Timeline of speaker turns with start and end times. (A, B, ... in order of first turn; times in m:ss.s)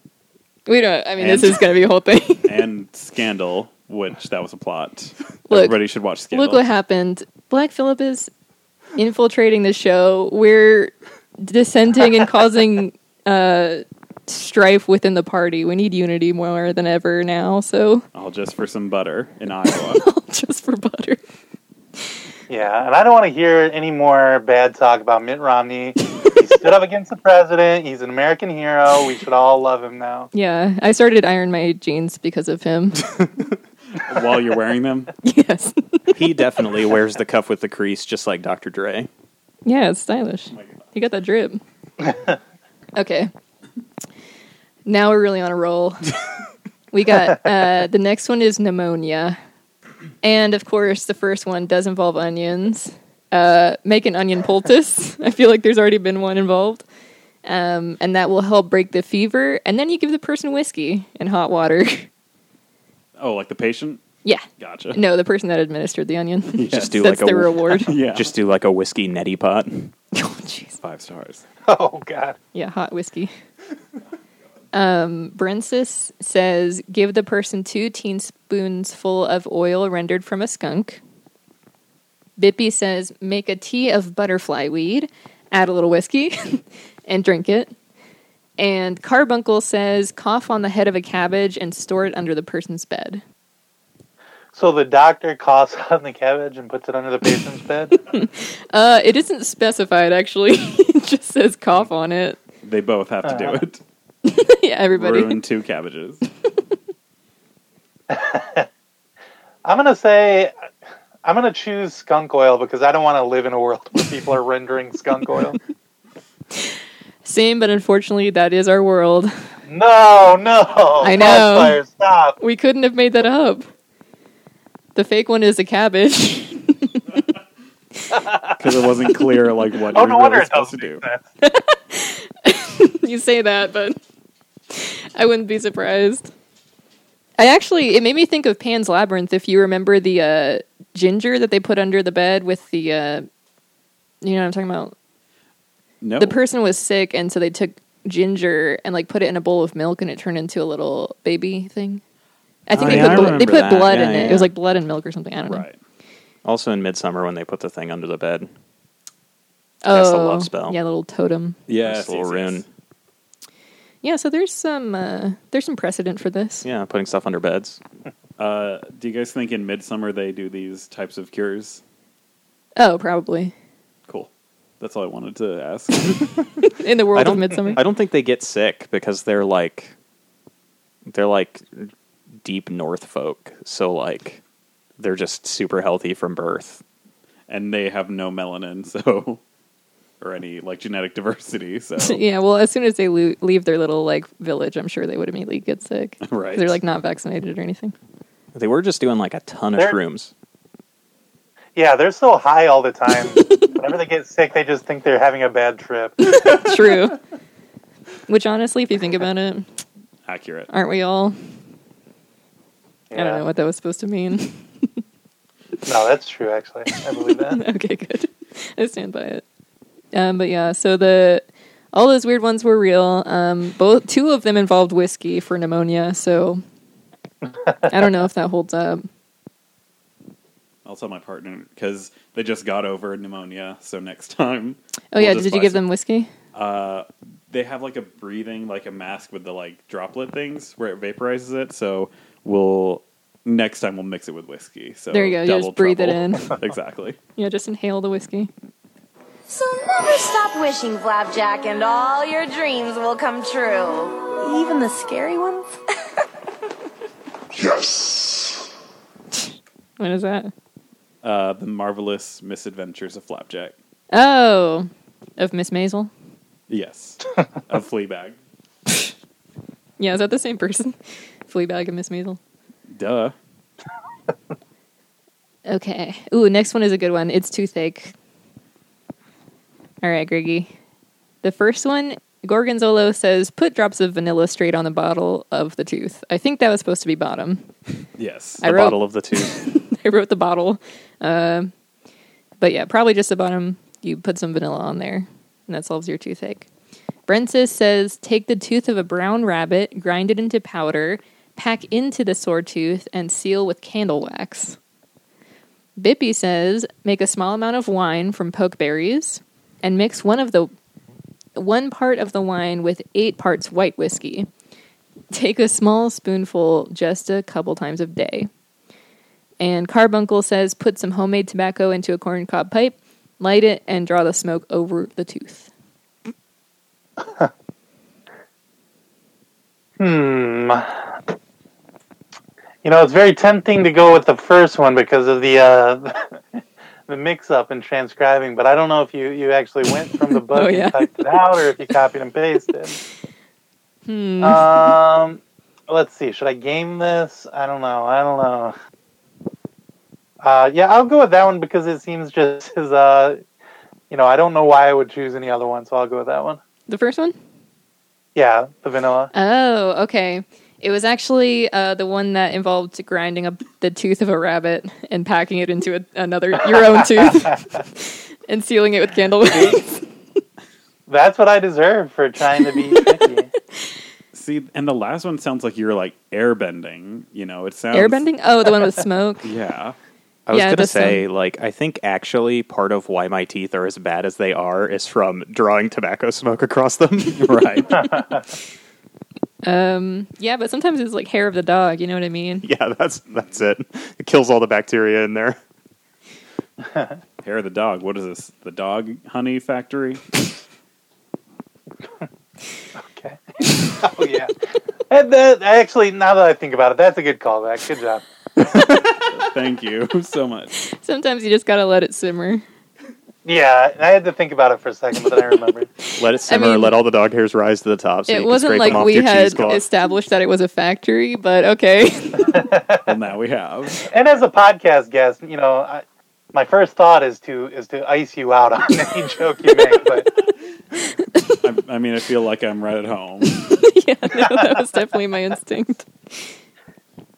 0:00.7-0:02.5 A
0:01.2-0:01.6 B
0:02.4-0:06.6 B
0:05.5-0:05.8 A
0:06.3-0:08.3 A
0:09.0-0:18.0 A
0:18.1-0:20.0 B
0:20.0-0:21.2 A
0:22.5-0:30.3 C
0:30.3-0:33.0 A
0:33.9-0:35.1 B
0:35.2-0:36.0 A
0:36.1-0:39.1 D
0:39.6-0:41.6 A
0:40.5-0:40.8 B
0:43.0-0:43.3 A
0:44.9-0:46.1 A
0:46.9-0:49.4 A
0:50.2-0:56.8 A
0:57.4-1:02.1 A
1:03.2-1:04.0 B
1:04.2-1:07.9 A
1:04.6-1:05.0 B
1:06.6-1:07.0 B
1:06.6-1:09.9 D
1:07.8-1:08.3 B
1:10.1-1:10.8 A
1:10.8-1:11.4 B
1:11.7-1:12.4 C
1:12.5-1:13.3 A
1:14.7-1:21.0 A
1:22.4-1:27.7 A
1:28.6-1:33.2 A
1:34.5-1:38.0 C
1:38.1-1:42.4 A
1:42.6-1:43.8 B
1:43.2-1:43.6 C
1:44.2-1:45.4 A
1:44.9-1:46.2 B
1:48.1-1:48.7 C
1:49.6-1:50.5 C
1:51.2-1:55.6 C
1:57.2-1:59.3 A
1:59.7-2:02.4 C
2:01.0-2:01.8 A
2:02.4-2:03.7 A
2:04.9-2:07.0 A
2:08.1-2:08.5 C
2:08.6-2:11.0 B
2:09.9-2:11.2 C
2:11.4-2:14.0 A
2:14.7-2:16.3 A
2:17.4-2:23.2 A
2:24.2-2:24.9 A
2:26.0-2:26.4 B
2:26.2-2:32.0 A
2:32.7-2:35.6 A
2:32.7-2:33.5 B
2:32.7-2:34.5 D
2:35.5-2:35.8 B
2:36.4-2:38.5 D
2:39.8-2:41.6 A
2:39.9-2:40.8 D
2:41.7-2:42.6 B
2:41.8-2:42.6 D
2:44.0-2:46.6 A
2:46.6-2:47.8 D
2:48.4-2:51.8 B
2:52.8-2:53.5 A
2:54.1-2:56.5 B
2:56.7-2:57.8 A
2:57.1-2:59.9 D
3:01.1-3:01.9 D
3:02.4-3:04.4 D
3:05.0-3:06.8 D
3:07.5-3:09.4 B
3:10.2-3:12.2 B
3:12.0-3:17.9 A
3:16.2-3:16.8 B
3:18.5-3:20.3 D
3:21.7-3:26.4 C
3:23.4-3:23.7 A
3:26.2-3:27.2 A
3:28.3-3:29.7 A
3:30.2-3:30.7 B
3:30.7-3:31.4 A
3:33.1-3:33.4 C
3:33.1-3:34.9 A
3:35.8-3:37.6 C
3:37.5-3:39.4 A
3:40.1-3:46.6 A
3:47.5-3:47.9 C
3:47.9-3:49.1 A
3:50.8-3:55.8 B
3:55.1-3:56.3 A
3:56.5-4:07.2 B
4:05.1-4:06.6 A
4:07.4-4:08.5 A
4:09.5-4:15.7 E
4:20.0-4:20.5 A
4:21.2-4:23.7 B
4:24.1-4:26.1 A
4:26.7-4:28.4 B
4:30.0-4:31.0 A
4:31.5-4:32.4 A
4:32.9-4:33.3 B
4:35.6-4:38.1 A
4:40.0-4:40.7 A
4:41.4-4:47.7 A
4:48.2-4:48.6 B
4:48.6-4:49.5 D
4:48.6-4:51.7 A
4:52.6-4:56.7 A
4:57.3-5:04.8 A
5:06.0-5:10.7 A
5:11.6-5:14.5 A
5:15.3-5:18.5 A
5:19.6-5:25.7 A
5:27.2-5:27.5 C
5:30.0-5:31.0 C
5:32.8-5:36.3 C
5:37.1-5:43.0 C
5:40.5-5:41.1 A
5:44.0-5:45.0 A
5:44.4-5:48.7 C
5:50.4-5:53.4 C
5:54.1-5:56.6 C
5:56.9-5:57.4 A
5:58.3-5:59.3 C
5:59.3-6:10.0 A
6:06.8-6:07.2 C
6:09.5-6:09.8 C
6:11.1-6:13.5 C
6:14.3-6:18.2 B
6:17.9-6:19.5 A
6:19.4-6:20.0 B
6:20.5-6:27.5 D
6:20.5-6:21.2 A
6:27.4-6:28.0 B
6:27.9-6:28.4 C
6:29.6-6:32.6 A
6:32.6-6:35.6 D
6:36.8-6:37.2 C
6:37.4-6:40.2 B
6:43.0-6:44.5 C
6:45.1-6:48.9 C
6:48.9-6:50.7 B
6:50.8-6:52.6 A
6:53.4-6:55.9 C
6:56.2-6:59.8 D
6:56.3-6:56.9 A
6:58.3-7:02.6 A
6:58.9-6:59.7 B
7:02.5-7:03.0 C
7:03.0-7:04.0 B
7:04.1-7:06.0 C
7:06.5-7:10.3 C
7:11.6-7:13.6 B
7:13.6-7:16.5 A
7:14.4-7:14.7 C